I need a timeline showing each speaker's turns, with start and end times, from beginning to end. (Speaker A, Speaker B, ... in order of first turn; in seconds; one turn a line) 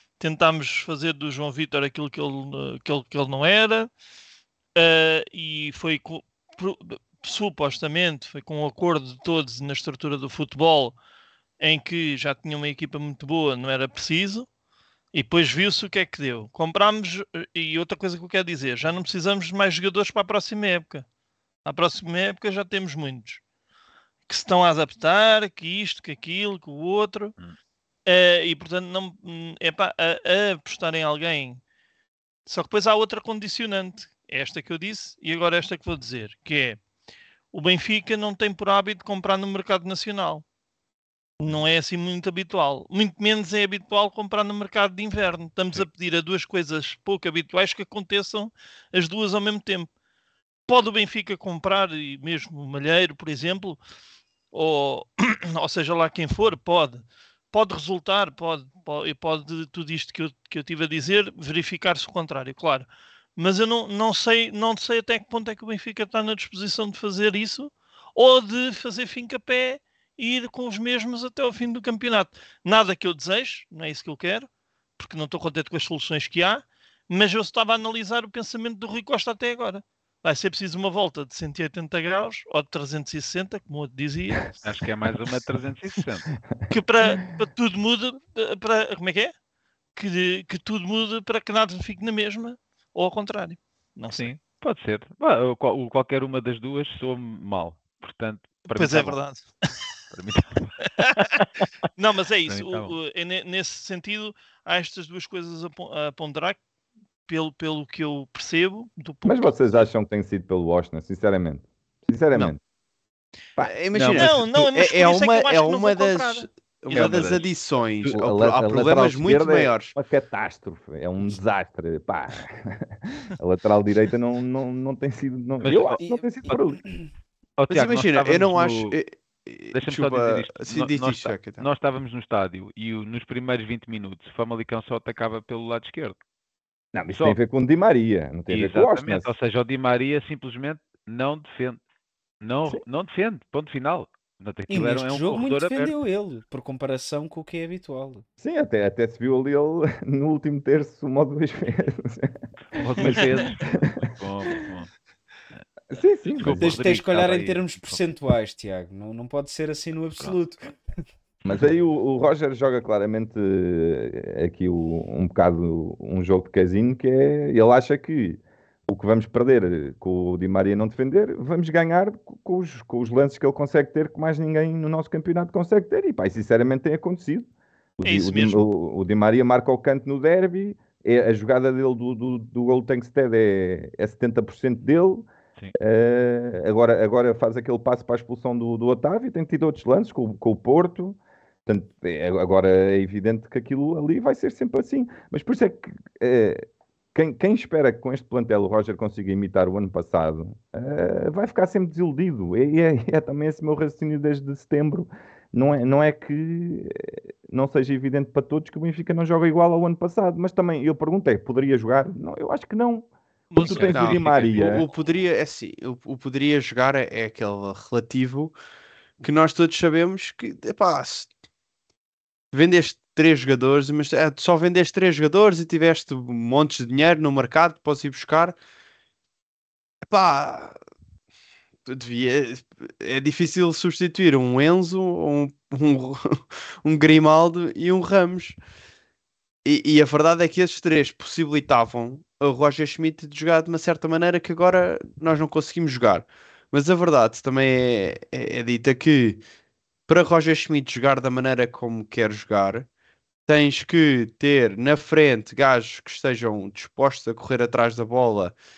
Speaker A: 0.2-3.9
Speaker A: 4.8-11.0
Speaker A: 11.6-14.5
Speaker A: 15.1-21.1
Speaker A: 21.6-23.4
Speaker A: 24.3-27.3
Speaker A: 28.1-31.6
Speaker A: 32.5-36.8
Speaker A: 37.5-40.4
Speaker A: 41.4-49.9
Speaker A: 50.7-53.8
Speaker A: 54.5-84.6
Speaker B: 84.6-86.3
Speaker A: 86.7-89.3
Speaker A: 90.0-94.3
Speaker B: 94.1-99.2
Speaker A: 98.7-99.8
Speaker B: 100.1-101.6
Speaker A: 101.0-101.3
Speaker A: 102.0-106.6
Speaker B: 102.5-102.9
Speaker A: 107.3-109.5
Speaker C: 109.2-112.6
Speaker D: 113.6-119.9
Speaker B: 113.9-114.3
Speaker A: 114.2-117.4
Speaker B: 116.9-117.5
Speaker C: 118.1-126.8
Speaker B: 125.6-126.6
Speaker E: 126.0-127.1
Speaker B: 127.6-129.0
Speaker D: 127.7-131.7
Speaker B: 129.7-136.2
Speaker C: 136.9-139.3
Speaker B: 138.5-141.8
Speaker B: 142.4-145.9
Speaker E: 144.7-148.2
Speaker C: 148.4-152.4
Speaker B: 152.7-154.9
Speaker C: 153.0-153.9
Speaker C: 155.9-156.8
Speaker B: 156.4-158.0
Speaker E: 156.5-160.7
Speaker C: 161.4-177.5
Speaker C: 178.0-185.3
Speaker A: 178.1-178.7
Speaker C: 185.8-214.9
Speaker A: 213.5-214.8
Speaker D: 213.7-218.6
Speaker D: 219.2-221.3
Speaker D: 222.5-228.6
Speaker D: 230.1-230.8
Speaker D: 231.9-238.6
Speaker D: 239.7-249.4
Speaker D: 250.1-252.9
Speaker D: 253.5-258.5